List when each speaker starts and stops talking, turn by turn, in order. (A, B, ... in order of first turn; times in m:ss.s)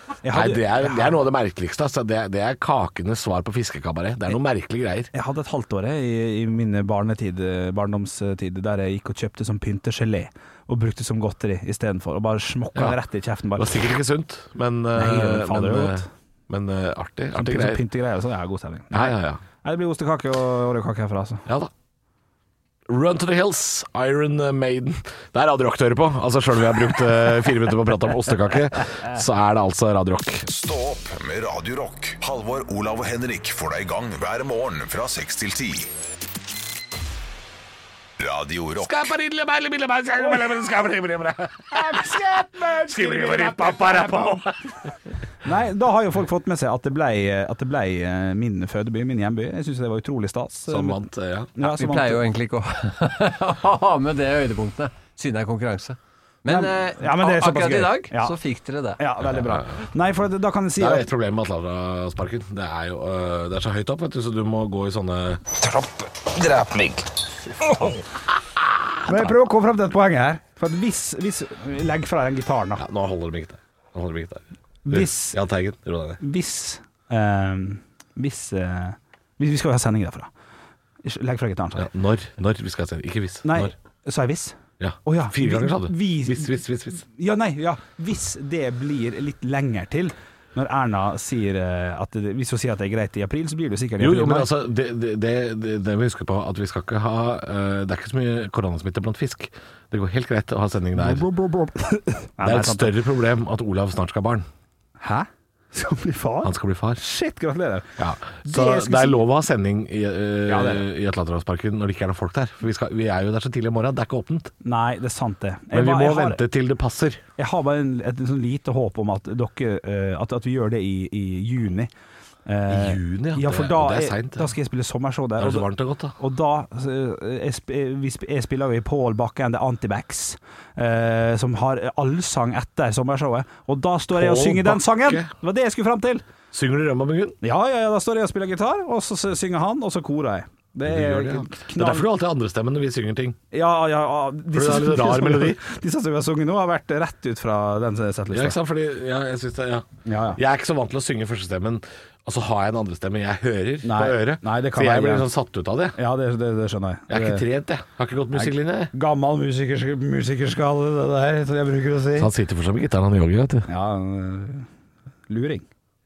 0:00.2-0:01.2 A
0:00.3-0:05.1 B
0:05.1-0:13.8 A
0:13.5-0:17.8 B
0:14.9-0:16.1 A
0:17.3-0:21.4 A
0:18.9-0:19.4 B
0:22.9-0:30.4 B
0:30.4-0:35.9 C
0:38.2-0:39.0 C
0:38.8-0:44.6 B
0:41.7-0:44.3 A
0:45.4-0:51.0 A
0:50.7-0:51.5 B
0:51.6-0:52.2 A
0:51.6-0:59.0 D
0:56.5-0:58.4 A
0:59.0-1:01.0 A
0:59.3-0:59.6 B
1:00.8-1:07.0 B
1:07.6-1:08.0 B
1:09.0-1:12.8 A
1:09.1-1:09.3 B
1:12.8-1:16.2 B
1:14.8-1:15.4 A
1:16.2-1:20.3 A
1:21.0-1:21.9 A
1:21.8-1:23.7 B
1:23.4-1:34.5 A
1:24.8-1:27.0 B
1:34.0-1:41.2 B
1:41.0-1:42.9 A
1:42.4-1:44.4 B
1:45.0-1:47.9 A
1:46.4-1:47.0 B
1:48.0-1:54.5 B
1:48.4-1:49.2 A
1:50.5-1:50.8 A
1:54.6-1:56.4 A
1:55.7-1:57.2 B
1:57.4-2:01.9 A
2:02.4-2:16.2 A
2:02.7-2:04.5 B
2:05.4-2:06.2 B
2:14.1-2:15.3 B
2:16.5-2:17.4 B
2:17.4-2:22.1 A
2:20.8-2:23.4 B
2:23.5-2:28.6 A
2:24.5-2:25.6 B
2:28.3-2:36.0 B
2:30.0-2:30.4 A
2:33.8-2:35.3 A
2:36.0-2:37.4 A
2:37.1-2:38.9 B
2:38.3-2:42.3 A
2:42.2-2:43.7 B
2:43.7-2:44.7 A
2:45.3-2:45.6 A